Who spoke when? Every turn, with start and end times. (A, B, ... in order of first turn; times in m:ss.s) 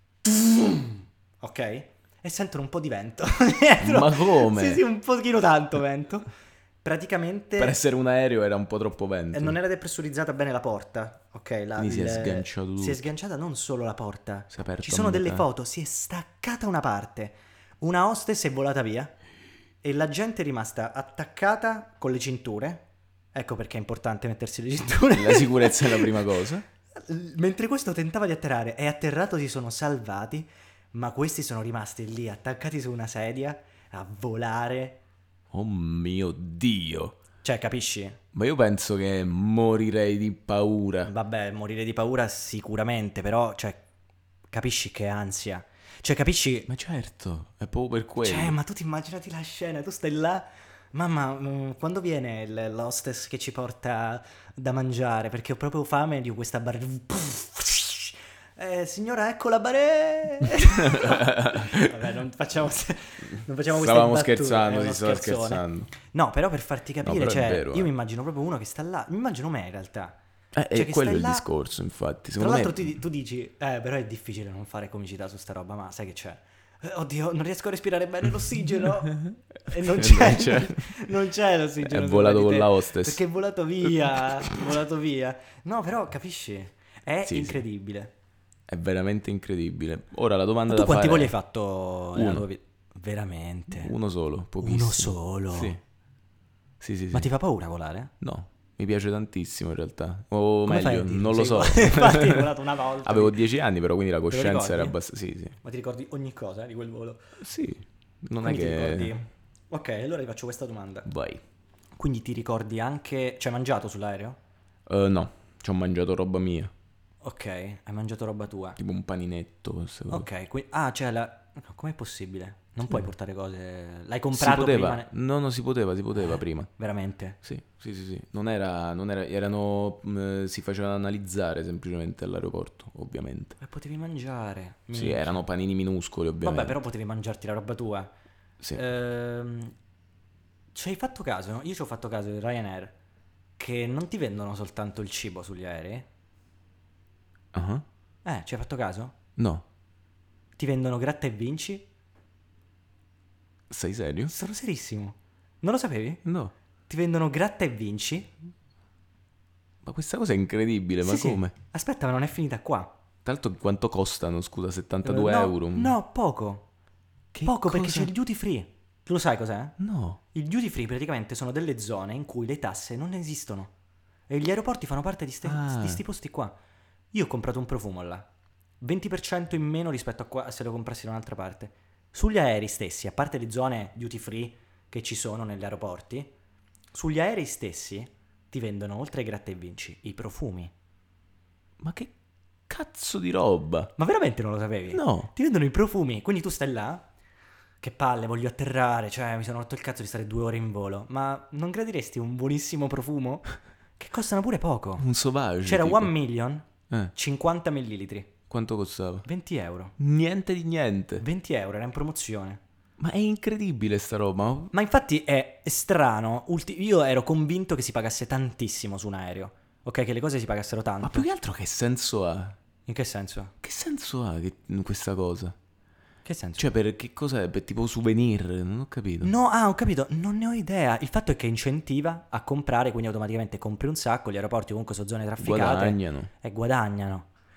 0:00.2-0:06.3 A
0:03.8-0:04.8 B
0:06.8-0:07.8 A
0:07.6-0:09.6 B
0:09.3-0:19.2 A
0:11.8-0:13.0 B
0:14.5-0:15.5 B
0:19.8-0:26.2 A
0:25.1-0:26.6 B
0:27.0-0:35.0 A
0:35.5-0:37.2 B
0:37.4-0:38.2 A
0:38.3-0:41.1 B
0:41.0-0:43.8 A
0:44.5-0:46.7 A
0:46.7-0:48.6 B
0:48.2-1:10.2 A
1:00.8-1:01.9 B
1:03.7-1:05.9 B
1:07.0-1:07.9 B
1:10.5-1:12.9 B
1:10.7-1:11.5 A
1:12.4-1:28.1 A
1:19.1-1:21.0 B
1:21.8-1:23.2 B
1:23.8-1:24.6 B
1:27.2-1:27.6 B
1:28.7-1:31.3 B
1:30.7-1:33.9 A
1:32.2-1:32.5 B
1:33.7-1:35.8 B
1:34.6-1:35.8 A
1:36.8-1:37.3 B
1:37.1-1:38.1 A
1:38.2-1:45.6 B
1:40.7-1:43.4 A
1:44.3-1:45.0 A
1:45.6-1:47.3 A
1:47.4-1:49.2 B
1:48.4-1:51.1 A
1:51.1-1:51.4 B
1:52.0-1:54.4 A
1:54.9-1:56.7 B
1:57.2-1:58.8 A
1:58.8-2:00.3 B
2:00.1-2:05.1 A
2:04.3-2:06.7 B
2:06.3-2:07.4 A
2:07.4-2:13.6 B
2:13.6-2:15.4 A
2:14.9-2:16.8 B
2:16.4-2:18.1 A
2:18.8-2:19.8 A
2:20.7-2:23.0 A
2:23.6-2:26.1 A
2:27.5-2:27.8 B
2:28.2-2:29.2 A
2:29.4-2:29.6 B
2:30.6-2:31.9 A
2:33.7-2:34.3 B
2:34.3-2:36.2 A
2:36.2-2:36.5 B
2:36.9-2:38.4 A
2:39.8-2:41.5 B
2:41.0-2:42.9 A
2:43.2-2:46.0 B
2:45.0-2:46.7 A
2:47.3-2:48.1 B
2:47.4-2:49.8 A
2:49.8-2:50.2 B
2:50.3-2:53.7 A
2:54.3-2:56.6 A
2:55.4-2:56.0 B
2:57.1-2:58.3 A
2:58.8-3:06.3 A
3:06.9-3:10.7 A
3:11.8-3:12.1 B
3:12.7-3:13.9 B
3:14.0-3:17.1 A
3:14.9-3:15.3 B
3:17.8-3:25.1 A
3:25.0-3:26.1 B
3:25.6-3:28.3 A
3:28.5-3:29.3 B
3:29.2-3:30.0 A
3:30.0-3:31.2 B
3:31.2-3:32.6 A
3:33.0-3:34.7 B
3:34.7-3:41.3 A
3:41.0-3:42.6 B
3:42.9-3:43.5 A
3:43.6-3:45.6 B
3:46.2-3:46.7 A
3:46.6-3:49.3 B
3:49.2-3:57.3 A
3:55.4-3:56.3 B